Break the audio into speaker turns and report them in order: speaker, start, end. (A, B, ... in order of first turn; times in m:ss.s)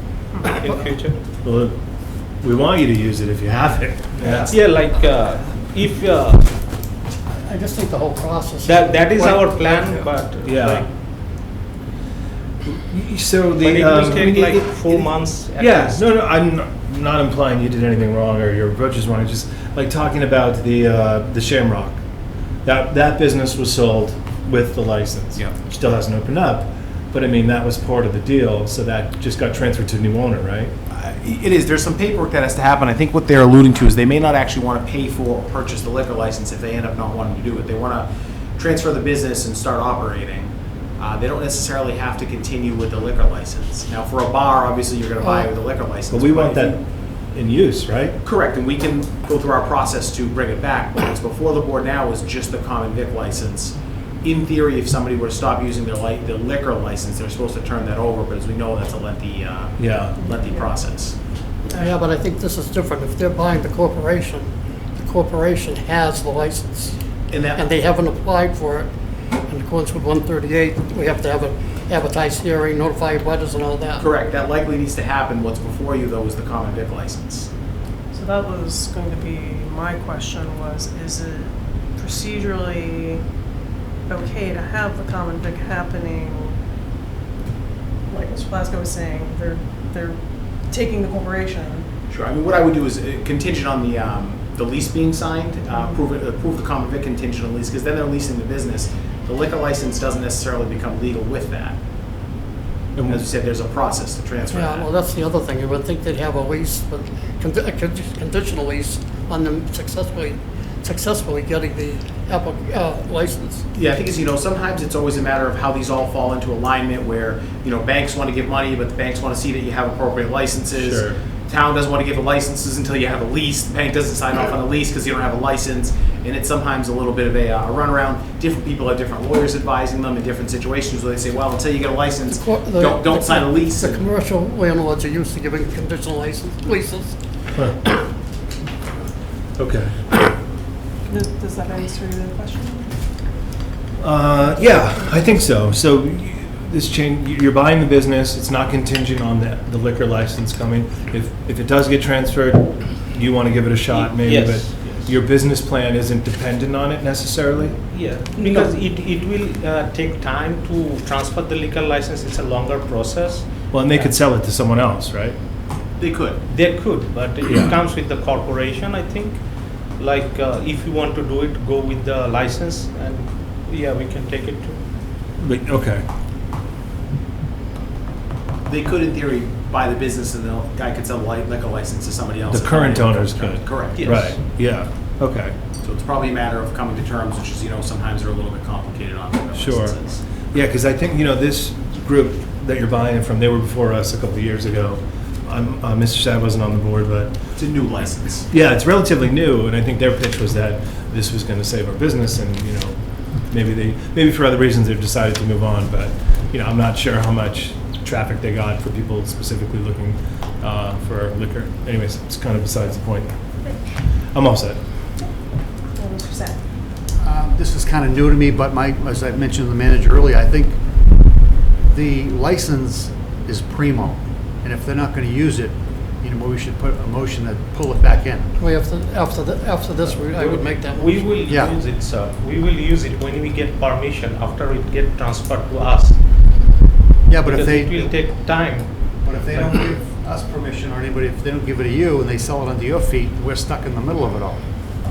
0:00.4-0:01.2 A
0:01.4-0:01.7 B
0:02.4-0:04.5 B
0:04.2-0:06.5 A
0:07.4-0:10.0 C
0:08.6-0:10.9 A
0:10.4-0:10.8 B
0:12.6-0:15.0 B
0:13.6-0:16.0 A
0:15.5-0:22.0 B
0:22.6-0:30.7 B
0:30.9-0:46.8 D
0:46.1-0:46.8 B
0:47.3-0:48.2 B
0:48.2-1:01.2 D
0:59.8-1:00.2 B
1:00.2-1:00.6 E
1:01.7-1:04.5 C
1:05.0-1:07.0 C
1:07.3-1:07.7 D
1:07.5-1:08.9 C
1:09.5-1:14.0 C
1:14.0-1:17.5 D
1:18.1-1:23.2 E
1:24.1-1:26.6 E
1:28.1-1:30.2 E
1:30.7-1:31.9 E
1:32.1-1:41.8 D
1:43.0-1:43.2 B
1:43.1-1:44.9 D
1:44.5-1:53.6 C
1:53.7-2:14.1 D
2:00.8-2:01.2 B
2:12.2-2:17.1 C
2:19.6-2:19.9 B
2:21.1-2:22.9 E
2:24.0-2:37.8 B
2:24.4-2:25.4 E
2:33.9-2:35.1 A
2:37.9-2:44.1 A
2:38.4-2:38.7 B
2:43.7-2:45.4 B
2:46.0-2:46.4 D
2:46.5-2:49.4 A
2:50.0-2:54.8 A
2:55.4-2:56.0 B
2:58.7-3:04.1 D
3:02.5-3:05.5 B
3:04.0-3:04.4 A
3:05.8-3:10.2 D
3:09.6-3:17.4 B
3:17.5-3:18.5 D
3:18.5-3:33.4 B
3:34.3-3:34.8 B
3:36.0-3:36.6 E
3:37.2-3:40.8 F
3:41.9-3:48.5 F
3:48.6-3:51.3 C
3:50.1-3:56.2 A
3:51.5-3:51.7 F
3:57.3-3:58.0 F
3:57.4-3:59.8 A
3:59.2-4:04.6 F